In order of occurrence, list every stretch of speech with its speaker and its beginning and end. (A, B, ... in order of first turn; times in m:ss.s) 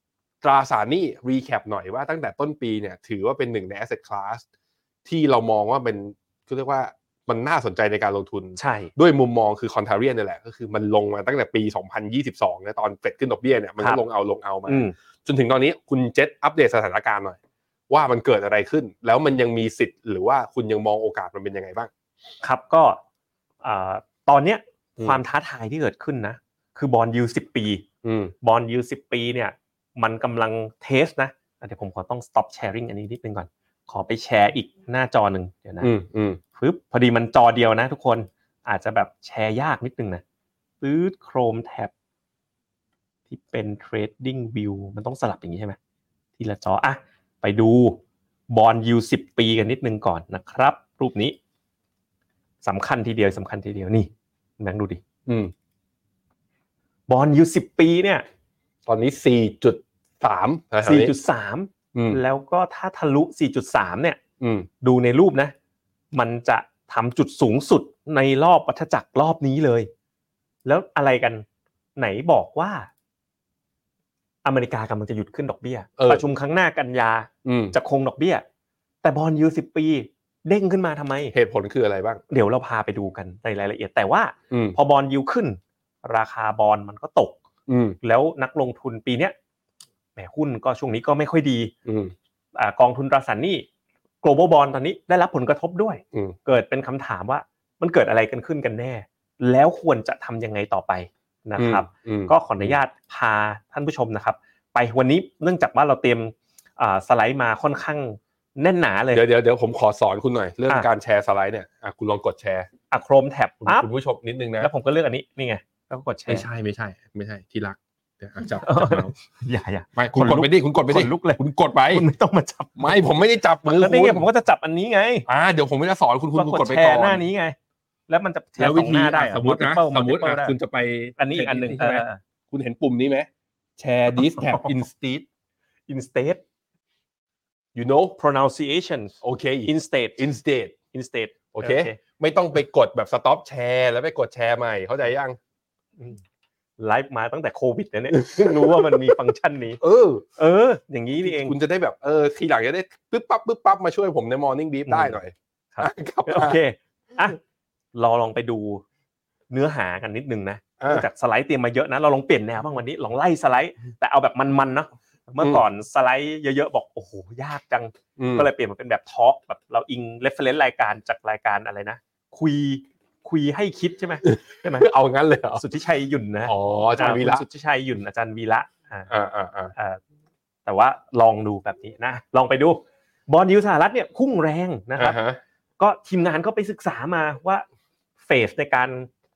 0:00.4-0:04.4 A
0:05.0-0:17.4 A
0:08.6-0:08.9 B
0:14.7-0:14.9 B
0:17.9-0:21.9 A
0:22.4-0:23.0 B
0:23.6-0:27.8 B
0:28.0-0:28.3 A
0:28.4-0:35.9 B
0:35.8-0:36.4 A
0:36.6-0:40.2 B
0:40.8-0:41.9 B
0:43.3-0:45.8 B
0:46.4-0:48.0 B
0:48.5-0:51.4 B
0:52.6-0:55.0 B
0:55.3-0:55.5 A
0:57.1-0:58.2 B
0:58.8-1:01.1 A
1:00.8-1:04.2 B
1:01.9-1:02.2 A
1:04.4-1:04.7 A
1:04.8-1:05.5 B
1:06.1-1:09.9 B
1:10.6-1:11.4 B
1:12.0-1:12.9 B
1:14.4-1:18.4 B
1:16.0-1:16.2 A
1:17.4-1:17.8 A
1:19.0-1:21.3 B
1:21.3-1:22.2 A
1:22.3-1:27.4 B
1:24.5-1:24.8 A
1:27.7-1:28.0 A
1:28.0-1:29.3 B
1:30.2-1:31.7 B
1:31.8-1:32.1 A
1:32.6-1:33.6 B
1:34.2-1:49.2 B
1:41.6-1:42.8 A
1:49.1-1:52.7 A
1:52.9-1:53.8 B
1:53.6-1:54.7 A
1:54.6-1:56.4 B
1:56.3-1:59.1 A
1:58.6-2:01.4 B
2:00.0-2:02.1 A
2:01.9-2:03.0 B
2:02.8-2:04.2 A
2:03.8-2:05.3 B
2:05.3-2:07.2 A
2:06.4-2:07.6 B
2:08.1-2:10.6 B
2:08.6-2:15.2 A
2:11.2-2:12.2 B
2:14.2-2:14.7 B
2:15.9-2:16.4 B
2:17.7-2:18.2 A
2:18.2-2:19.1 B
2:19.2-2:20.7 A
2:19.6-2:20.2 B
2:20.9-2:22.0 B
2:21.5-2:25.4 A
2:26.8-2:29.8 B
2:28.1-2:29.2 A
2:29.8-2:30.2 A
2:30.4-2:31.6 B
2:31.2-2:36.6 A
2:34.8-2:35.2 B
2:35.7-2:37.4 B
2:37.9-2:38.8 B
2:39.5-2:54.9 B
2:40.8-2:41.1 A
2:48.2-2:48.5 A
2:54.2-2:55.6 A
2:55.6-2:59.1 B
2:56.4-2:57.4 A
2:59.1-2:59.7 A
2:59.7-3:00.0 B
3:00.6-3:05.2 B
3:05.0-3:05.4 A
3:05.8-3:07.6 B
3:08.2-3:09.1 B